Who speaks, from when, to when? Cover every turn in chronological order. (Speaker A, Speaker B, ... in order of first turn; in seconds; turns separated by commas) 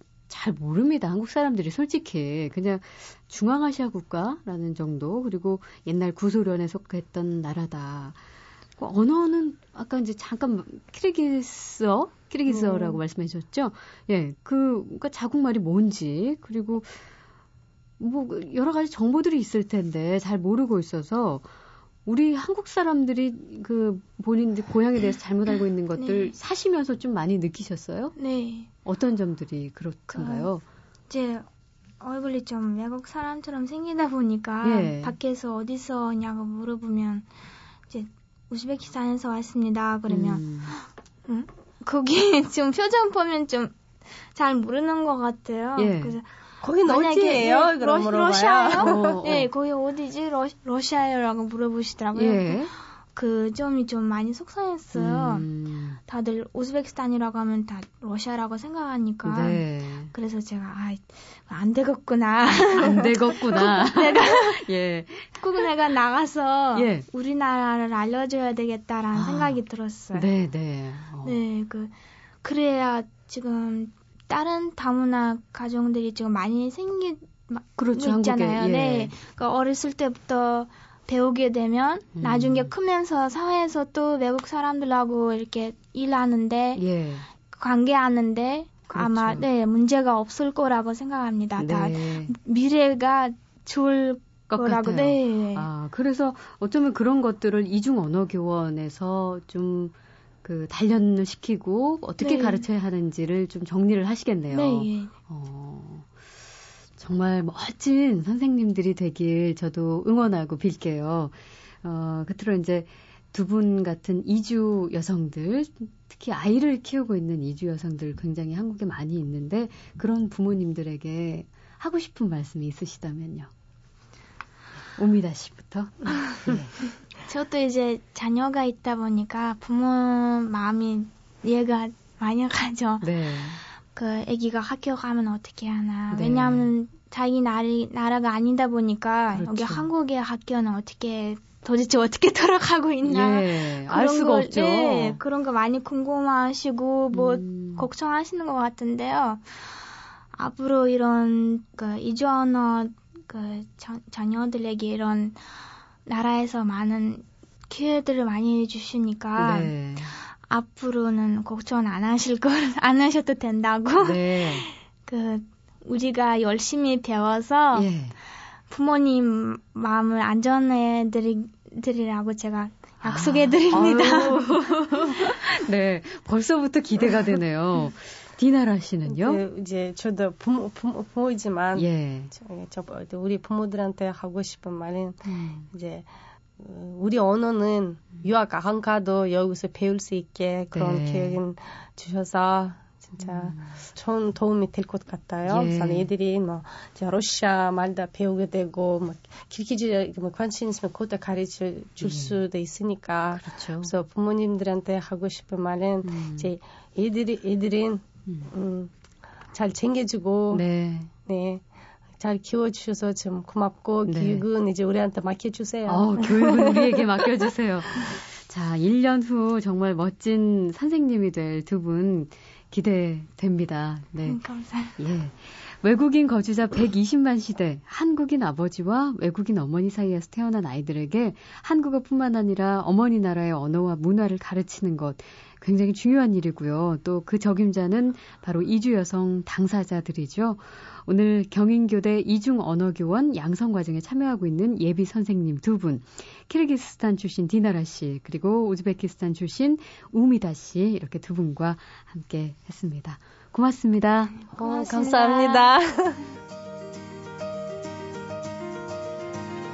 Speaker A: 0.3-8.2, Speaker A: 8.8-16.9, Speaker B: 12.5-13.0, Speaker A: 18.0-21.4, Speaker A: 22.0-28.1, Speaker C: 26.0-26.3, Speaker C: 28.2-28.7, Speaker A: 28.8-30.6, Speaker C: 30.1-30.5, Speaker C: 31.1-31.4, Speaker C: 32.0-37.2, Speaker A: 34.6-35.1, Speaker C: 37.9-43.7, Speaker A: 40.1-40.7, Speaker C: 44.3-46.2, Speaker A: 45.8-46.1, Speaker B: 46.6-49.3, Speaker C: 46.8-55.5, Speaker A: 48.8-49.5, Speaker A: 52.1-52.7, Speaker A: 54.9-56.0, Speaker C: 56.1-64.7, Speaker A: 59.2-60.1, Speaker A: 62.7-65.4, Speaker C: 65.4-70.3, Speaker A: 66.7-67.0, Speaker A: 69.1-69.6, Speaker A: 70.1-71.4, Speaker C: 71.2-86.8, Speaker A: 77.8-79.1, Speaker A: 82.2-82.7, Speaker A: 86.7-87.3, Speaker C: 87.5-95.7, Speaker A: 88.9-89.4, Speaker A: 91.6-92.3, Speaker A: 94.5-106.1, Speaker C: 102.2-102.6, Speaker C: 104.5-105.1, Speaker A: 107.0-123.5, Speaker A: 125.0-126.7, Speaker C: 127.2-133.1, Speaker A: 133.0-133.6, Speaker C: 133.9-149.4, Speaker A: 136.1-136.7, Speaker A: 139.3-139.9, Speaker A: 143.0-145.2, Speaker A: 147.1-147.9, Speaker C: 150.3-155.4, Speaker C: 156.1-167.9, Speaker A: 159.4-160.1, Speaker A: 164.0-164.7, Speaker A: 167.7-168.2, Speaker C: 168.7-175.0, Speaker A: 173.0-179.4, Speaker B: 179.1-186.1, Speaker A: 181.7-182.3, Speaker A: 185.3-185.6, Speaker B: 186.6-208.9, Speaker A: 190.7-191.4, Speaker A: 193.2-193.7, Speaker A: 195.4-196.1, Speaker A: 202.0-202.4, Speaker A: 203.4-203.9, Speaker A: 206.0-206.5, Speaker B: 209.5-210.6, Speaker A: 210.5-211.1, Speaker B: 211.2-211.6, Speaker B: 212.2-217.1, Speaker A: 214.0-214.4, Speaker A: 215.9-224.4, Speaker C: 224.2-225.0, Speaker A: 225.0-254.4, Speaker C: 254.5-255.7, Speaker B: 254.6-256.2